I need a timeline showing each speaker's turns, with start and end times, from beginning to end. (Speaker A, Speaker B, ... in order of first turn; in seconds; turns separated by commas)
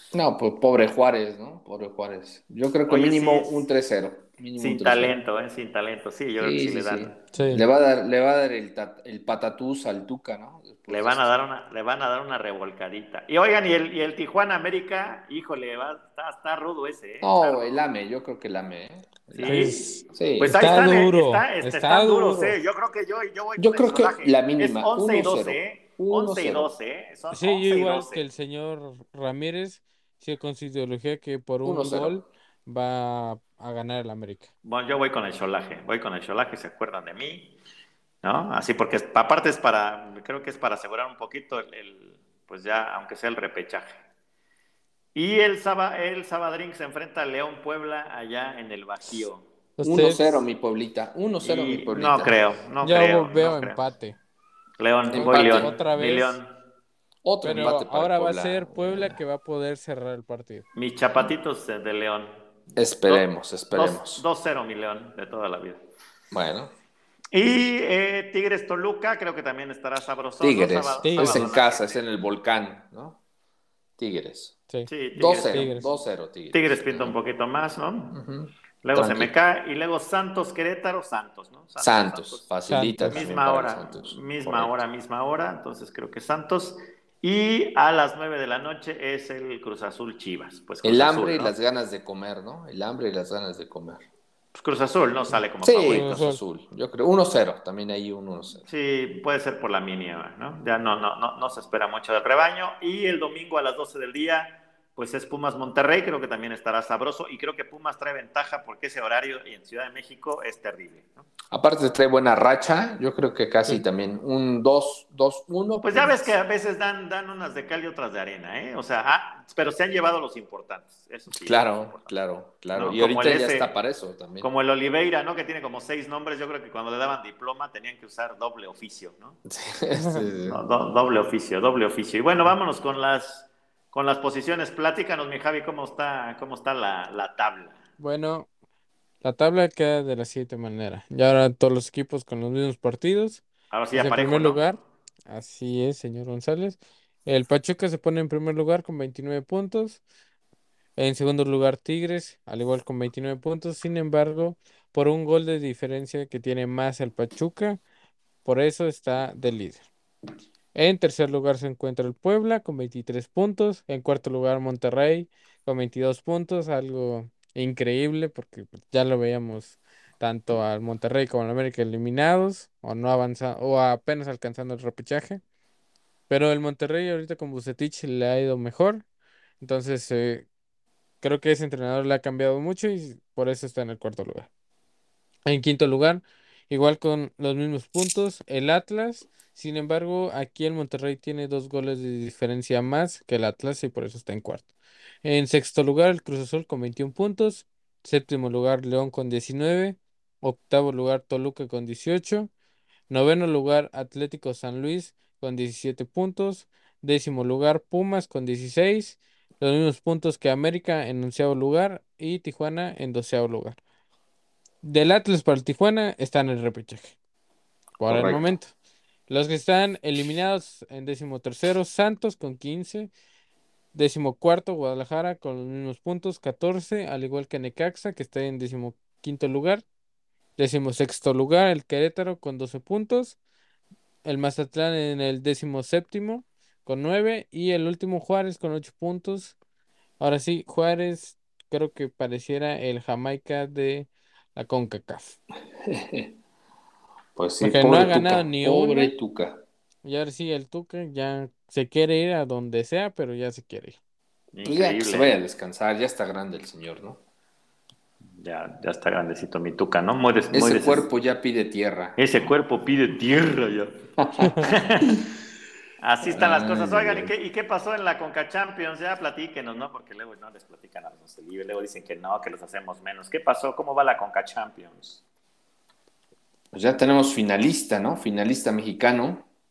Speaker A: 0.1-5.2, Speaker B: 2.9-3.6, Speaker B: 4.6-7.2, Speaker A: 6.4-11.3, Speaker C: 7.3-7.7, Speaker B: 10.9-17.8, Speaker A: 17.2-20.6, Speaker B: 19.3-28.2, Speaker C: 19.4-22.6, Speaker A: 23.6-26.7, Speaker C: 27.3-34.5, Speaker A: 31.6-32.2, Speaker B: 34.6-37.5, Speaker B: 38.2-44.0, Speaker B: 45.1-49.4, Speaker C: 49.8-50.4, Speaker A: 49.8-52.4, Speaker B: 51.4-53.8, Speaker C: 52.8-54.1, Speaker B: 54.8-56.5, Speaker A: 55.1-55.7, Speaker C: 55.1-56.4, Speaker A: 57.2-59.2, Speaker C: 57.4-60.6, Speaker B: 60.7-62.3, Speaker A: 62.8-64.2, Speaker B: 63.1-65.8, Speaker A: 66.3-66.7, Speaker B: 67.3-72.0, Speaker A: 70.4-73.2, Speaker C: 71.0-71.5, Speaker A: 74.0-74.6, Speaker B: 74.9-75.7, Speaker A: 75.1-77.2, Speaker C: 75.5-75.9, Speaker B: 76.5-78.2, Speaker A: 78.1-79.3, Speaker B: 78.8-82.4, Speaker A: 81.8-84.8, Speaker C: 82.7-83.3, Speaker B: 83.1-91.5, Speaker A: 90.8-94.0, Speaker B: 94.5-96.2, Speaker A: 95.6-98.6, Speaker C: 95.9-96.4, Speaker B: 98.7-111.2, Speaker A: 111.5-116.4, Speaker B: 115.8-122.1, Speaker A: 121.3-124.5, Speaker B: 122.7-123.7, Speaker B: 124.4-129.4, Speaker A: 129.5-130.6, Speaker C: 130.0-130.2, Speaker B: 130.5-137.8, Speaker C: 138.0-138.5, Speaker C: 139.2-150.0, Speaker B: 143.7-144.6, Speaker C: 150.9-157.8, Speaker C: 158.4-159.8, Speaker C: 160.7-175.4, Speaker C: 176.3-179.0, Speaker C: 179.6-180.5, Speaker C: 181.2-184.5, Speaker C: 185.4-194.7, Speaker C: 195.2-202.5, Speaker C: 203.1-213.8, Speaker C: 214.8-217.1, Speaker C: 218.0-218.7, Speaker A: 218.1-218.5, Speaker C: 219.3-223.1, Speaker C: 223.9-229.8, Speaker C: 230.6-233.4, Speaker C: 234.2-239.6, Speaker C: 240.2-245.4, Speaker A: 245.8-246.3, Speaker A: 247.3-249.6, Speaker C: 247.6-249.1, Speaker C: 250.0-254.0, Speaker B: 254.5-255.3, Speaker A: 254.6-257.2, Speaker B: 258.4-261.1, Speaker A: 260.5-262.5, Speaker B: 262.2-264.0, Speaker A: 264.2-264.6, Speaker B: 264.6-265.2, Speaker B: 266.0-275.2, Speaker A: 266.2-267.3, Speaker A: 276.7-279.4